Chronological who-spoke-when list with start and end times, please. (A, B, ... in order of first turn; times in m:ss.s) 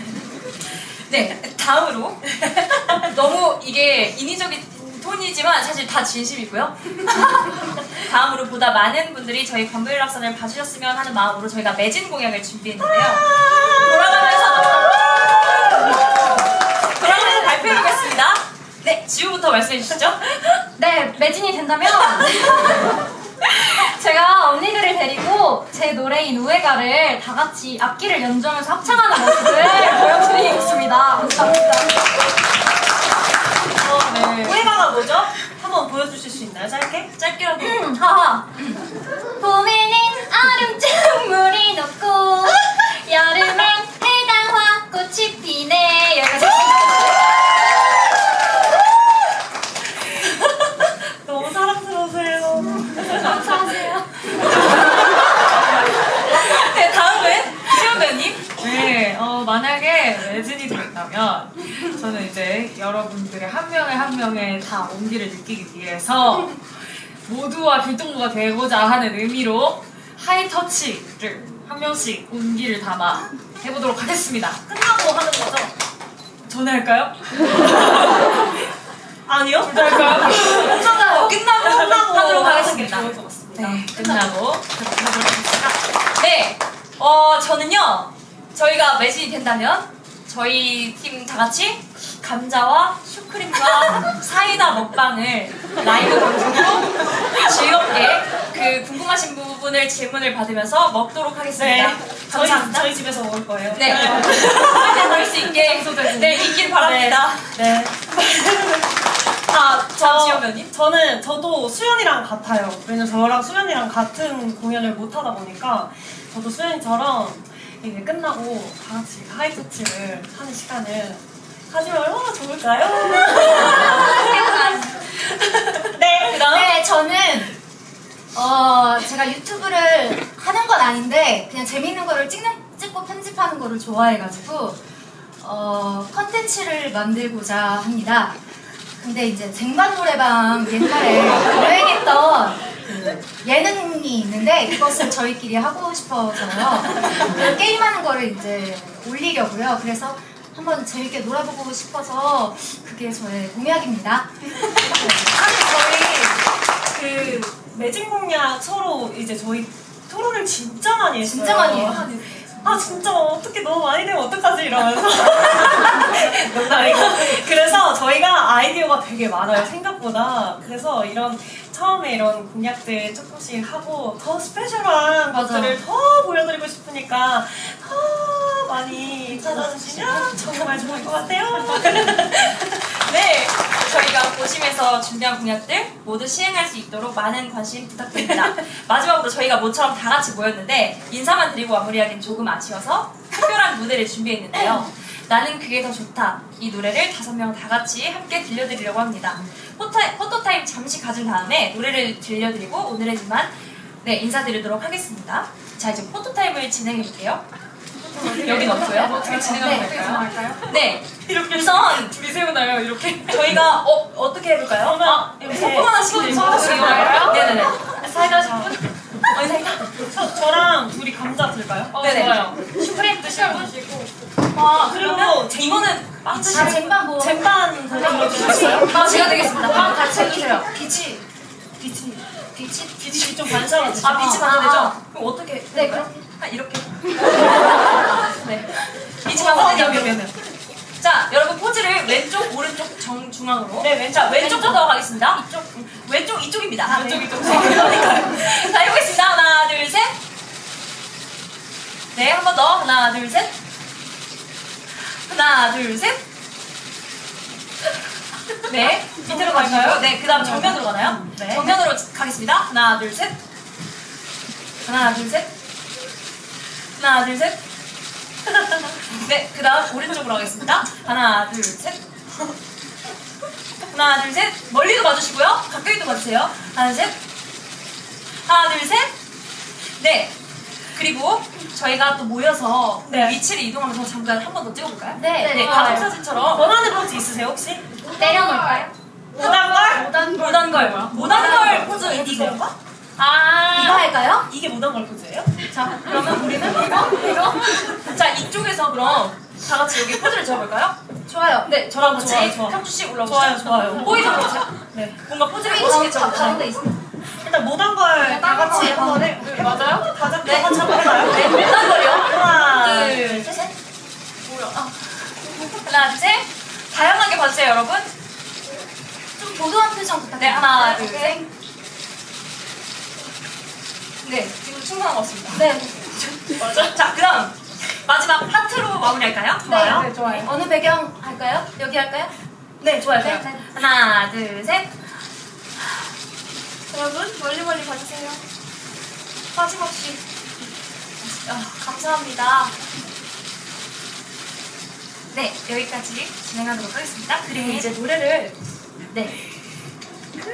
0:00.6-0:20.6 A
0:20.8-0:32.0 B
0:33.8-0:34.5 A
0:34.2-0:37.1 C
0:37.2-0:37.9 A
0:37.6-0:38.7 B
0:39.4-0:47.1 B
0:51.2-0:53.5 C
0:52.9-0:54.1 B
0:54.5-0:54.9 A
0:56.1-0:58.5 A
0:58.5-1:14.6 D
1:14.7-1:15.7 C
1:16.5-1:18.5 D
1:19.3-1:24.2 C
1:19.6-1:21.1 D
1:20.4-1:42.9 A
1:41.6-1:49.1 C
1:43.7-1:47.6 A
1:49.4-1:50.7 A
1:50.0-2:05.0 C
2:03.3-2:04.8 A
2:05.9-2:06.5 C
2:06.2-2:06.8 A
2:06.4-2:07.6 E
2:08.3-2:14.8 E
2:15.4-2:18.4 E
2:19.0-2:34.7 E
2:34.8-2:35.8 C
2:35.4-2:36.4 A
2:36.9-3:02.3 C
2:41.2-2:42.1 E
2:55.3-2:55.8 A
3:01.6-3:27.4 A
3:28.1-3:30.7 D
3:28.4-3:32.2 A
3:29.1-3:29.8 C
3:31.3-3:33.7 D
3:33.2-3:40.1 A
3:34.8-3:38.8 C
3:36.1-3:37.8 D
3:40.0-3:42.9 C
3:41.9-3:44.1 D
3:42.0-3:42.6 A
3:44.5-3:47.0 A
3:44.8-3:50.1 C
3:46.6-3:49.0 E
3:48.4-3:50.7 A
3:49.5-3:51.2 E
3:51.8-3:54.4 C
3:54.0-4:00.3 A
3:54.1-3:54.4 B
3:55.7-3:56.0 B
3:59.3-4:00.2 C
4:01.0-4:10.2 A
4:03.8-4:04.7 C
4:06.9-4:07.8 C
4:12.1-4:13.6 A
4:15.0-4:16.2 A
4:18.6-4:23.4 A
4:19.0-4:21.8 C
4:24.8-4:25.5 A
4:27.0-4:27.6 A
4:29.1-4:32.2 A
4:33.9-4:37.2 A
4:38.4-4:39.1 A
4:40.0-4:40.4 A
4:40.9-4:46.6 A
4:43.1-4:43.4 C
4:45.2-4:45.9 E
4:45.4-4:45.8 B
4:45.6-4:47.9 C
4:48.1-4:48.9 B
4:49.3-4:50.2 C
4:50.2-4:52.6 A
4:51.0-4:52.7 C
4:53.2-4:54.1 A
4:53.8-4:54.5 E
4:54.4-4:57.0 C
4:55.9-4:57.3 E
4:56.2-4:56.6 A
4:57.8-5:01.0 A
5:01.3-5:01.7 E
5:01.8-5:06.8 A
5:01.9-5:05.2 C
5:05.7-5:06.9 E
5:06.2-5:06.6 C
5:07.2-5:13.7 C
5:10.4-5:13.7 A
5:15.8-5:18.1 A
5:19.4-5:21.4 E
5:20.4-5:21.4 A
5:24.2-5:25.7 A
5:25.6-5:26.2 E
5:26.5-5:30.5 A
5:29.7-5:32.3 E
5:31.2-5:31.6 A
5:32.8-5:35.0 A
5:33.2-5:33.5 E
5:37.0-5:37.8 A
5:39.6-5:40.1 A
5:41.2-5:42.7 A
5:45.3-5:48.5 A
5:47.6-5:47.8 C
5:49.1-5:49.4 A